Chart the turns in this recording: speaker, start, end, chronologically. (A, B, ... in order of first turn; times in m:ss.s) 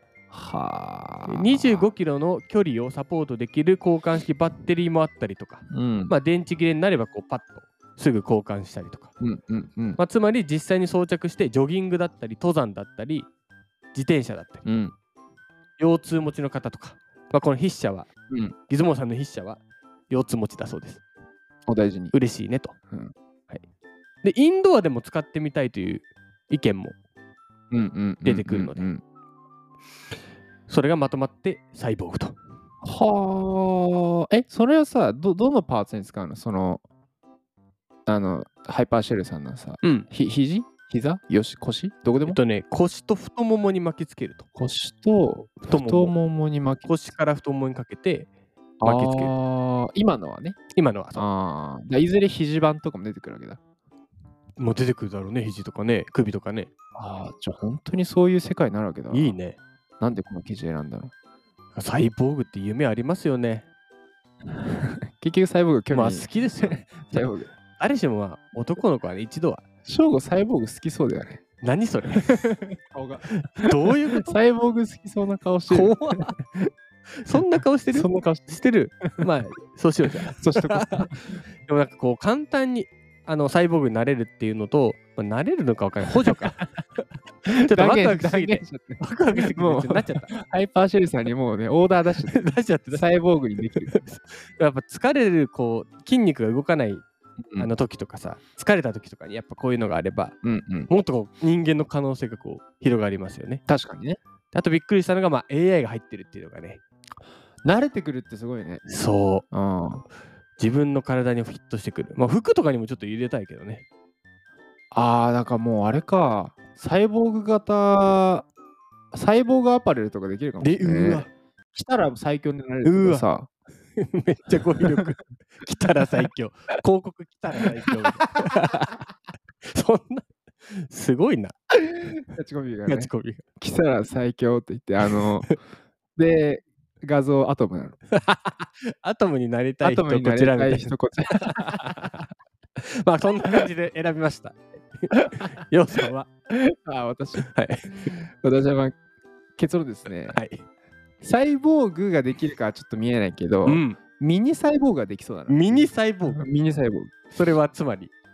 0:00.3-0:01.9 A
0:01.3-0:09.1 B
0:05.7-0:06.2 A
0:09.2-0:10.0 A
0:10.0-0:13.3 B
0:13.9-0:14.6 B
0:14.6-0:14.9 A
0:15.8-0:18.1 B
0:18.7-0:21.0 B
0:21.7-0:22.1 A
0:22.1-0:22.8 B
0:24.2-0:27.0 B
0:27.7-0:29.0 A
0:28.2-0:28.9 B
0:30.7-0:32.4 B
0:32.8-0:36.8 A
0:38.1-0:42.4 A
0:39.8-0:40.1 B
0:42.2-0:44.5 B
0:44.6-0:47.1 A
0:45.7-0:46.2 B
0:46.8-0:48.3 B
0:48.8-0:50.6 A
0:48.8-0:49.4 B
0:50.7-0:51.3 B
0:51.2-0:53.6 A
0:54.6-0:56.7 B
0:57.0-0:59.4 A
0:59.1-0:59.6 B
1:00.0-1:01.1 A
1:01.7-1:03.7 B
1:04.5-1:07.5 A
1:05.9-1:07.1 B
1:07.8-1:09.6 B
1:09.8-1:11.4 A
1:11.6-1:12.6 B
1:12.2-1:16.7 A
1:13.6-1:14.4 B
1:15.7-1:16.4 B
1:17.2-1:26.6 B
1:17.9-1:18.6 A
1:20.3-1:21.4 A
1:26.3-1:26.6 A
1:27.5-1:34.0 A
1:27.6-1:30.3 B
1:32.3-1:37.0 B
1:37.6-1:40.4 B
1:40.4-1:40.9 A
1:40.9-1:43.6 B
1:43.7-1:44.2 A
1:44.5-1:46.8 B
1:47.6-1:48.8 A
1:48.9-1:49.4 B
1:49.5-1:50.0 A
1:50.6-1:53.8 B
1:54.9-1:58.5 A
1:59.1-2:03.5 A
2:00.6-2:01.3 B
2:02.8-2:03.3 B
2:04.0-2:09.0 B
2:07.8-2:08.5 A
2:09.7-2:11.5 B
2:12.0-2:15.6 A
2:12.8-2:13.4 B
2:15.0-2:15.5 B
2:16.2-2:18.0 A
2:18.1-2:22.0 B
2:19.8-2:22.2 A
2:22.8-2:26.3 B
2:25.1-2:25.4 A
2:26.5-2:27.5 A
2:27.4-2:28.2 B
2:28.0-2:29.0 A
2:29.6-2:30.4 A
2:30.1-2:30.6 B
2:31.2-2:37.1 A
2:33.6-2:34.0 B
2:35.5-2:36.5 B
2:37.3-2:38.1 B